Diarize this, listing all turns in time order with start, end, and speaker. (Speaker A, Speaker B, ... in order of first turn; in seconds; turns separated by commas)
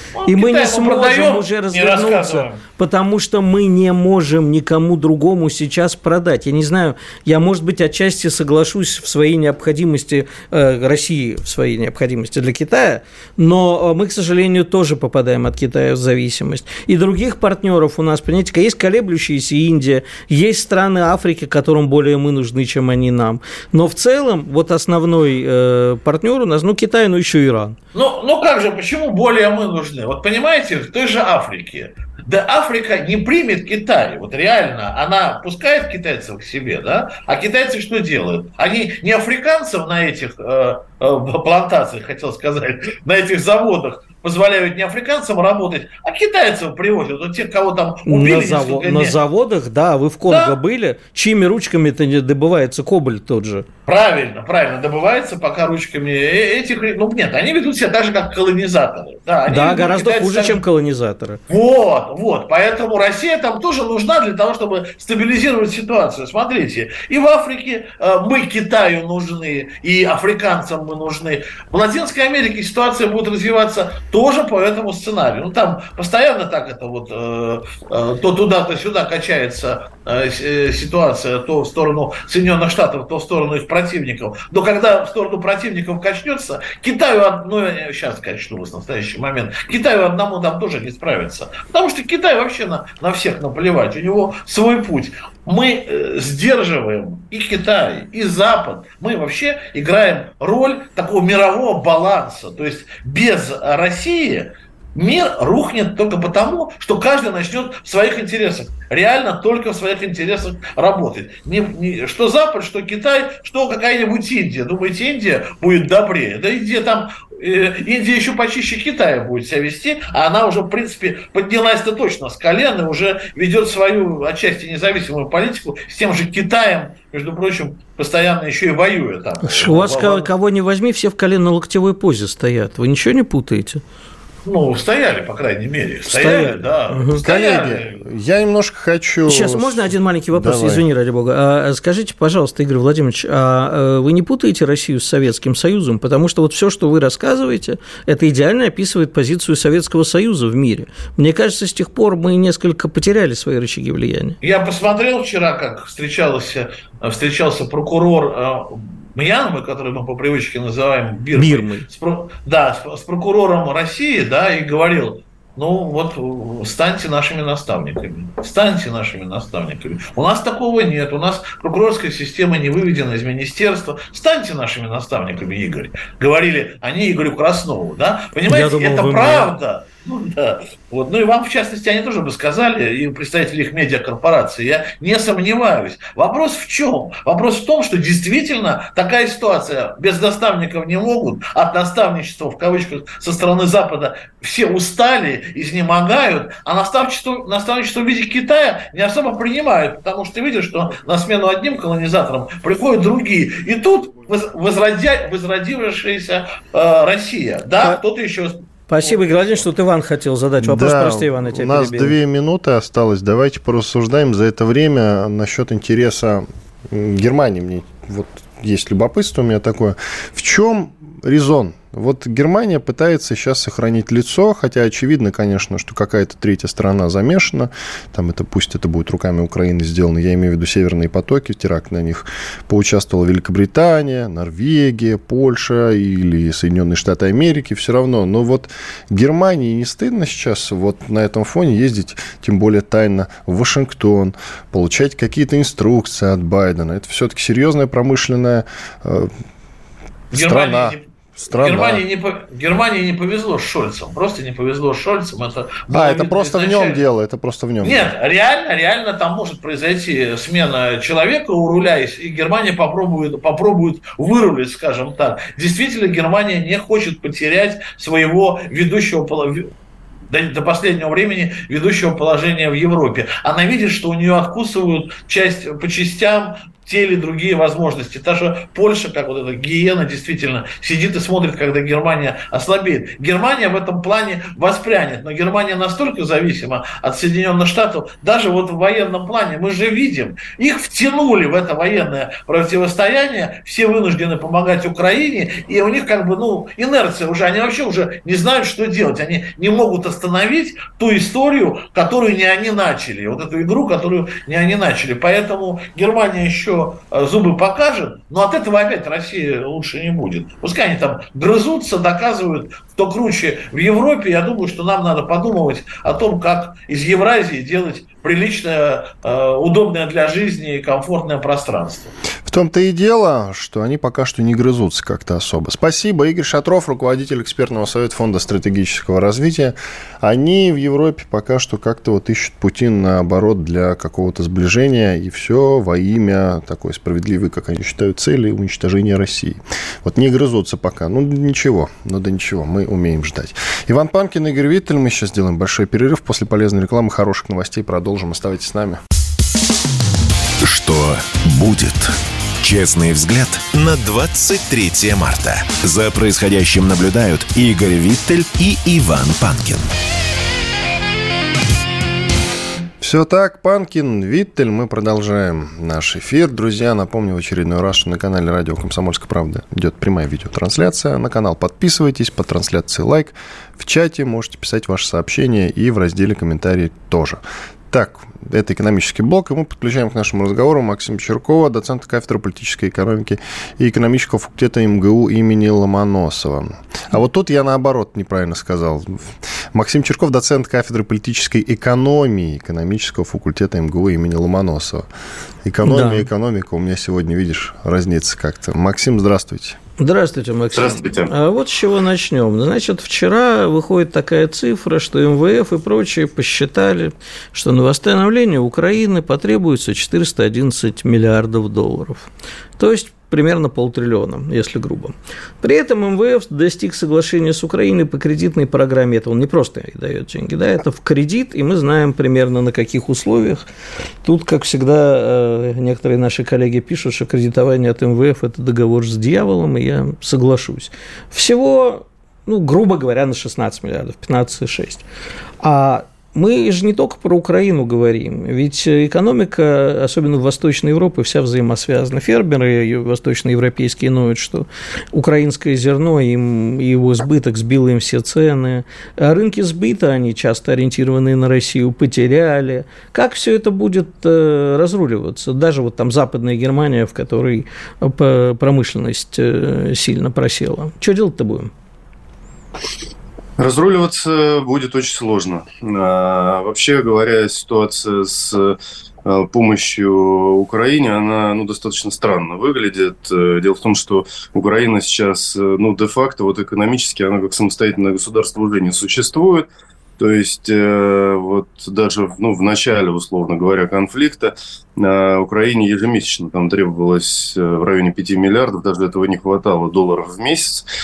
Speaker A: 0.1-2.6, Speaker B: 0.3-27.8, Speaker A: 27.9-49.1, Speaker B: 48.1-53.6, Speaker A: 50.3-50.5, Speaker A: 53.9-60.6, Speaker B: 59.5-61.4, Speaker A: 61.5-130.3, Speaker B: 129.4-133.8, Speaker A: 134.4-138.0, Speaker B: 136.1-137.2, Speaker C: 137.2-140.8, Speaker B: 139.3-154.4, Speaker A: 154.4-209.6, Speaker B: 161.3-161.9, Speaker B: 178.5-179.5, Speaker B: 208.9-212.2, Speaker C: 210.6-249.3, Speaker C: 250.3-252.0, Speaker A: 250.3-251.0, Speaker A: 251.6-257.0, Speaker C: 255.9-258.1, Speaker A: 257.8-269.7, Speaker A: 270.3-322.1, Speaker C: 322.4-349.0, Speaker D: 350.6-359.9, Speaker C: 363.0-395.1, Speaker C: 395.6-399.8, Speaker B: 395.8-396.3, Speaker B: 400.0-423.6, Speaker E: 400.7-401.3, Speaker B: 424.2-435.0, Speaker B: 435.6-461.7, Speaker E: 463.6-479.7, Speaker E: 480.2-490.9